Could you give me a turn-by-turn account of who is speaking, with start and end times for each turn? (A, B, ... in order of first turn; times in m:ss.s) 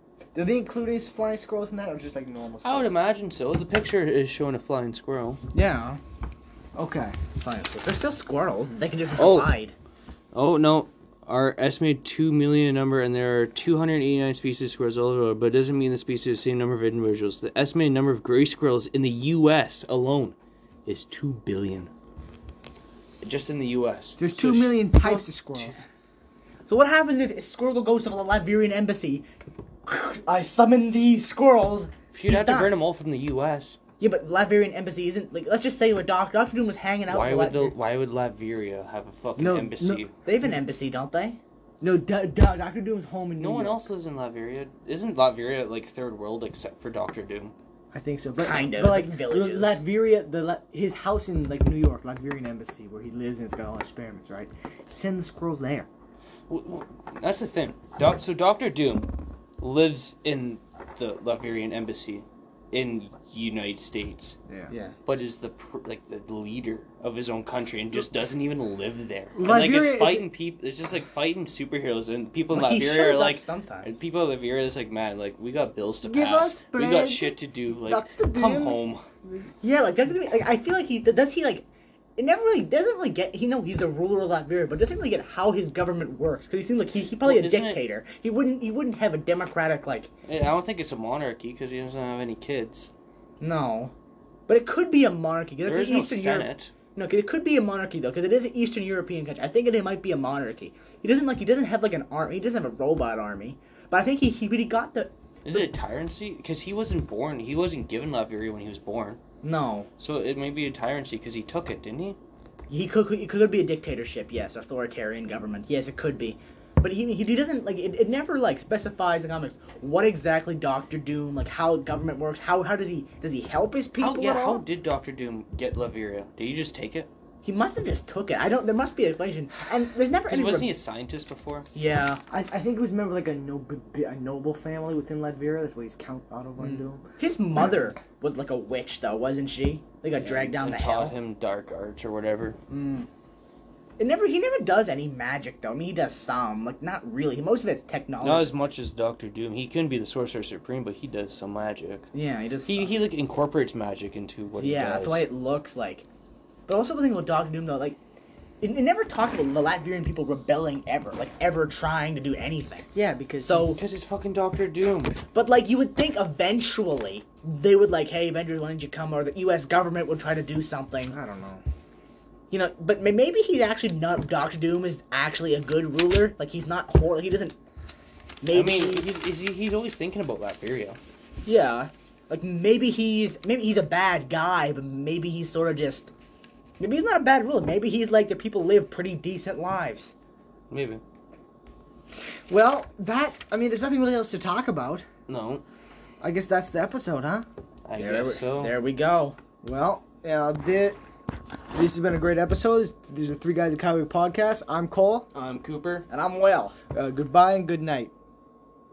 0:00.3-0:02.9 A
0:02.6-0:05.4 B
0:05.5-0:06.0 C
0:06.8-0:07.2 A
0:07.4-0:09.7 C
0:09.2-0:09.5 B
0:10.3-0:20.3 B
0:20.8-0:21.9 B
0:23.2-0:25.8 B
0:24.2-0:25.8 A
0:26.7-0:29.3 C
0:29.8-0:32.7 C
0:32.1-0:33.8 B
0:34.0-0:37.7 C
0:37.1-0:40.1 B
0:39.4-0:40.0 A
0:40.1-0:41.4 C
0:41.8-0:43.9 A
0:43.4-0:47.5 B
0:47.9-0:55.9 A
0:48.4-0:49.8 C
0:56.5-1:04.4 B
1:04.5-1:04.7 A
1:04.7-1:05.0 C
1:05.0-1:19.0 B
1:09.3-1:10.3 A
1:12.5-1:13.9 C
1:16.0-1:18.8 A
1:19.6-1:21.6 C
1:22.2-1:30.1 C
1:27.2-1:27.8 B
1:30.2-1:32.9 B
1:33.4-1:33.9 C
1:34.5-1:45.7 C
1:35.6-1:36.7 B
1:45.4-1:49.2 B
1:49.4-1:49.9 C
1:50.0-1:52.2 B
1:52.7-2:04.6 C
2:04.0-2:07.1 B
2:07.4-2:10.7 C
2:10.3-2:11.7 B
2:11.7-2:12.2 C
2:12.3-2:17.0 A
2:16.6-2:21.1 C
2:20.2-2:22.6 B
2:22.7-2:23.1 A
2:24.0-2:28.5 C
2:28.2-2:32.1 B
2:32.1-2:32.9 C
2:32.6-2:35.3 B
2:34.6-2:36.0 C
2:36.7-2:38.0 C
2:38.6-2:42.9 C
2:42.9-2:43.7 A
2:43.4-2:43.8 C
2:43.5-2:45.2 B
2:45.3-2:51.2 C
2:51.1-2:51.6 A
2:52.5-2:57.5 C
2:58.4-2:59.1 C
2:58.5-3:01.0 B
3:01.4-3:06.1 C
3:06.8-3:10.1 C
3:10.7-3:11.0 B
3:12.5-3:15.1 A
3:15.3-3:15.6 B
3:16.2-3:17.5 A
3:17.8-3:18.8 B
3:17.9-3:19.4 C
3:19.6-3:21.0 A
3:21.7-3:25.3 A
3:25.3-3:26.1 B
3:26.1-3:26.8 C
3:26.9-3:28.1 A